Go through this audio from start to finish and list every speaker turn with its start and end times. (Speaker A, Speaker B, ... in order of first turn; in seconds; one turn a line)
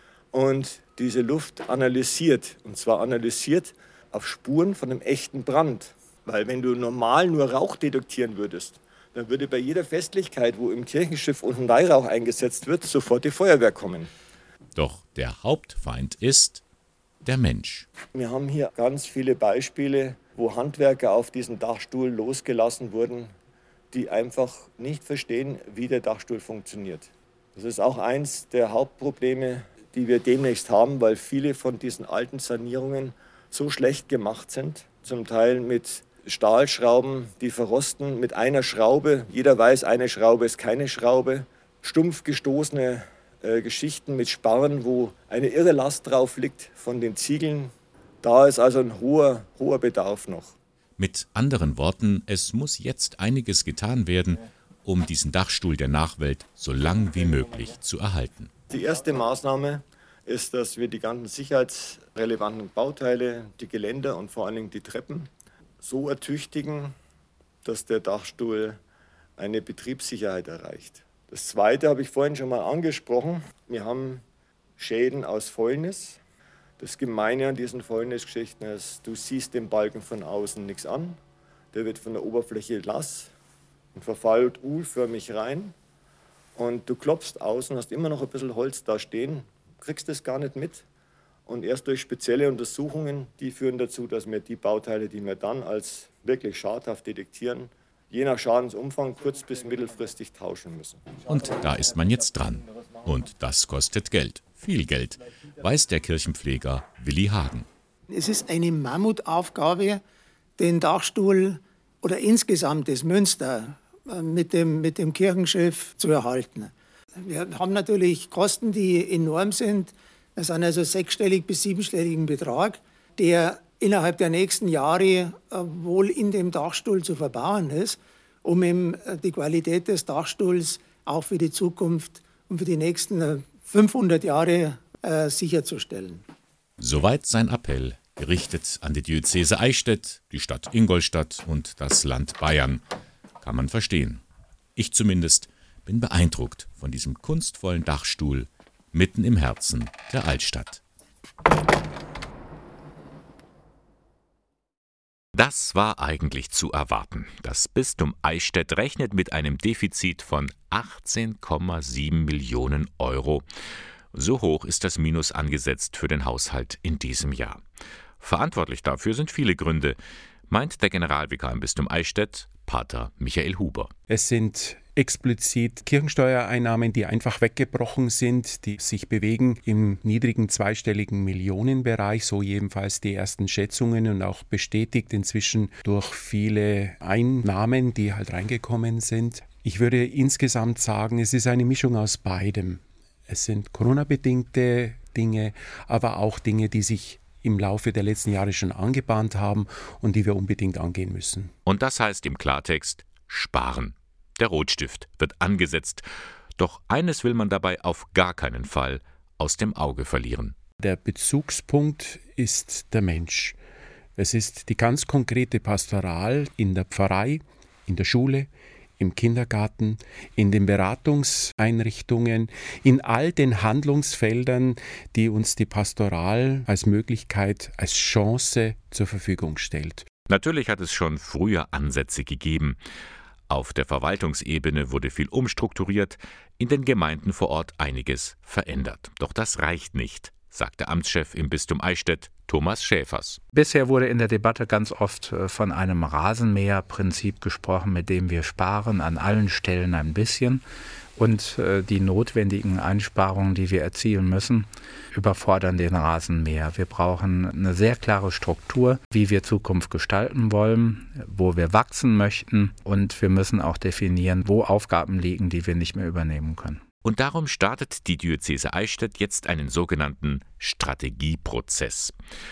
Speaker A: 0.3-14.1
Speaker B: 14.8-16.6
Speaker B: 17.2-17.9
Speaker A: 18.1-23.3
Speaker A: 23.9-50.5
Speaker B: 51.0-58.5
Speaker A: 58.7-65.3
Speaker A: 65.8-66.9
Speaker A: 67.6-68.8
Speaker A: 69.4-74.2
Speaker A: 74.8-76.2
Speaker A: 76.8-81.2
Speaker A: 81.7-83.3
Speaker A: 84.0-85.7
Speaker A: 86.5-90.8
Speaker A: 91.5-101.2
Speaker B: 101.2-107.7
Speaker C: 108.1-110.0
Speaker C: 110.6-136.2
Speaker B: 136.8-142.8
Speaker B: 143.4-144.2
Speaker B: 144.8-150.8
Speaker B: 155.3-163.4
Speaker B: 164.1-167.6
Speaker B: 168.2-170.0
Speaker B: 170.5-173.9
Speaker D: 174.1-201.5
Speaker B: 201.7-206.0
Speaker B: 206.6-210.6
Speaker D: 210.8-213.6
Speaker D: 214.2-230.1
Speaker B: 230.3-232.8
Speaker B: 233.5-243.4
Speaker E: 243.5-250.6
Speaker E: 251.2-266.8
Speaker B: 267.0-272.1